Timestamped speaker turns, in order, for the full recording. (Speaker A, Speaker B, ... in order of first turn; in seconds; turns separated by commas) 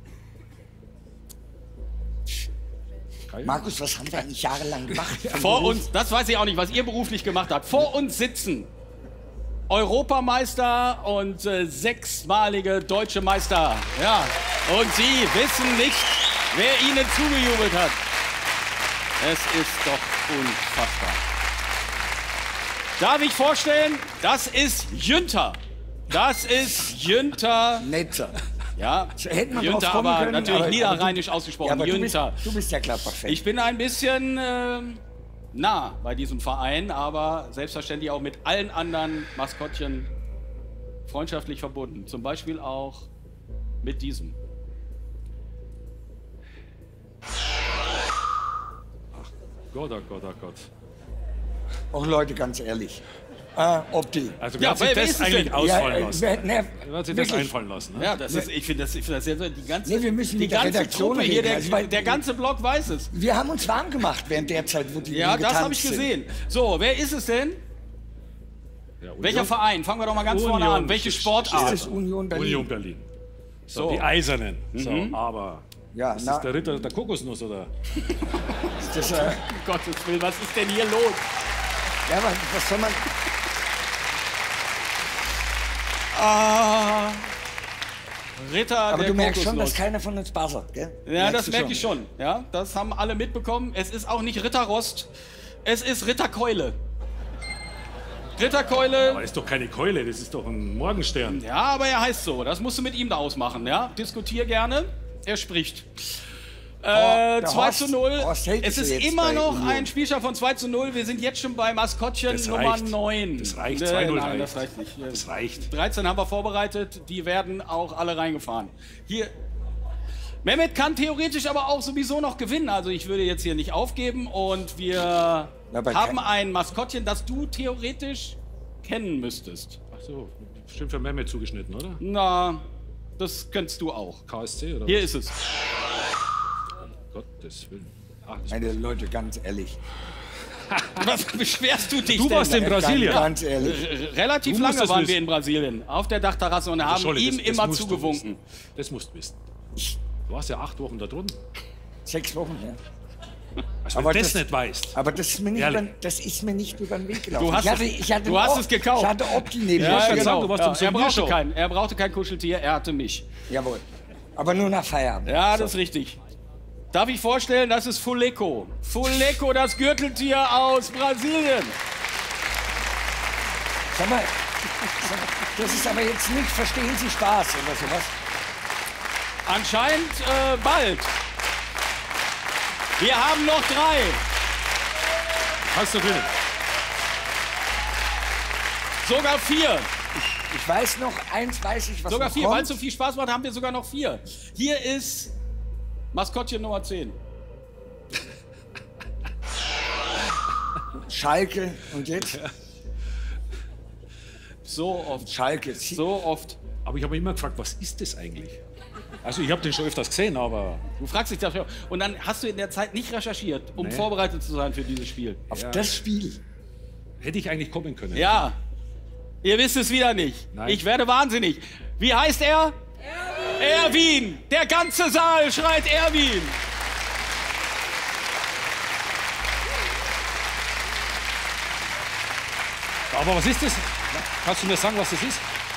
Speaker A: 3.3-3.6, Speaker B: 3.4-5.9, Speaker A: 5.0-5.4, Speaker C: 5.3-8.7, Speaker C: 9.7-18.0, Speaker C: 19.2-21.2, Speaker C: 23.0-27.9, Speaker B: 27.8-28.4, Speaker C: 28.8-32.6, Speaker B: 29.2-33.4, Speaker C: 33.2-35.0, Speaker C: 35.5-40.1, Speaker C: 41.1-43.1, Speaker C: 43.8-44.4, Speaker A: 49.1-50.7, Speaker B: 51.9-53.0, Speaker B: 53.5-54.4, Speaker A: 54.4-58.2, Speaker C: 54.6-55.7, Speaker B: 55.6-57.5, Speaker C: 58.0-63.1, Speaker B: 59.9-62.2, Speaker B: 63.1-66.1, Speaker C: 65.1-67.6, Speaker A: 69.0-69.5, Speaker C: 69.2-71.8, Speaker A: 70.1-73.1, Speaker B: 71.5-72.7, Speaker A: 73.7-77.7, Speaker C: 73.7-74.1, Speaker C: 74.7-75.2, Speaker B: 75.9-76.7, Speaker C: 78.0-81.2, Speaker B: 78.8-79.5, Speaker B: 82.1-83.0, Speaker C: 86.1-87.3, Speaker C: 88.4-89.8, Speaker B: 88.9-91.9, Speaker C: 91.0-95.1, Speaker C: 95.7-96.8, Speaker C: 98.4-99.2, Speaker A: 99.0-101.4, Speaker C: 101.2-105.9, Speaker C: 106.8-119.3, Speaker B: 106.9-109.9, Speaker A: 112.3-115.7, Speaker C: 120.4-129.8, Speaker B: 125.7-126.2, Speaker A: 129.9-132.0, Speaker C: 132.0-132.6, Speaker C: 133.2-134.2, Speaker A: 134.3-135.1, Speaker C: 134.9-135.4, Speaker A: 137.1-138.7, Speaker B: 138.5-139.8, Speaker A: 140.7-141.0, Speaker C: 141.0-148.4, Speaker A: 142.1-143.3, Speaker B: 142.6-143.8, Speaker A: 144.4-145.2, Speaker A: 146.8-148.2, Speaker A: 148.8-149.4, Speaker A: 150.3-151.4, Speaker B: 152.1-152.8, Speaker A: 153.8-155.0, Speaker B: 153.9-160.4, Speaker A: 155.5-155.8, Speaker C: 157.3-163.2, Speaker A: 159.7-161.4, Speaker B: 163.5-163.8, Speaker B: 164.3-165.7, Speaker C: 165.3-166.2, Speaker C: 166.9-171.8, Speaker B: 173.9-174.3, Speaker B: 174.9-178.1, Speaker C: 179.5-181.1, Speaker C: 183.0-184.2, Speaker A: 185.6-186.3, Speaker C: 189.0-189.9, Speaker B: 190.5-192.8, Speaker C: 192.1-195.3, Speaker C: 196.1-197.2, Speaker B: 201.0-202.4, Speaker A: 202.2-202.5, Speaker C: 204.7-205.3, Speaker B: 205.2-206.0, Speaker C: 205.9-206.6, Speaker A: 206.8-208.6, Speaker A: 209.2-210.8, Speaker C: 211.0-215.4, Speaker A: 213.8-214.1, Speaker A: 215.5-215.9, Speaker B: 215.5-216.4, Speaker A: 217.2-218.5, Speaker C: 218.1-218.6, Speaker C: 219.4-222.8, Speaker A: 220.5-220.8, Speaker C: 223.6-226.6, Speaker A: 233.1-235.4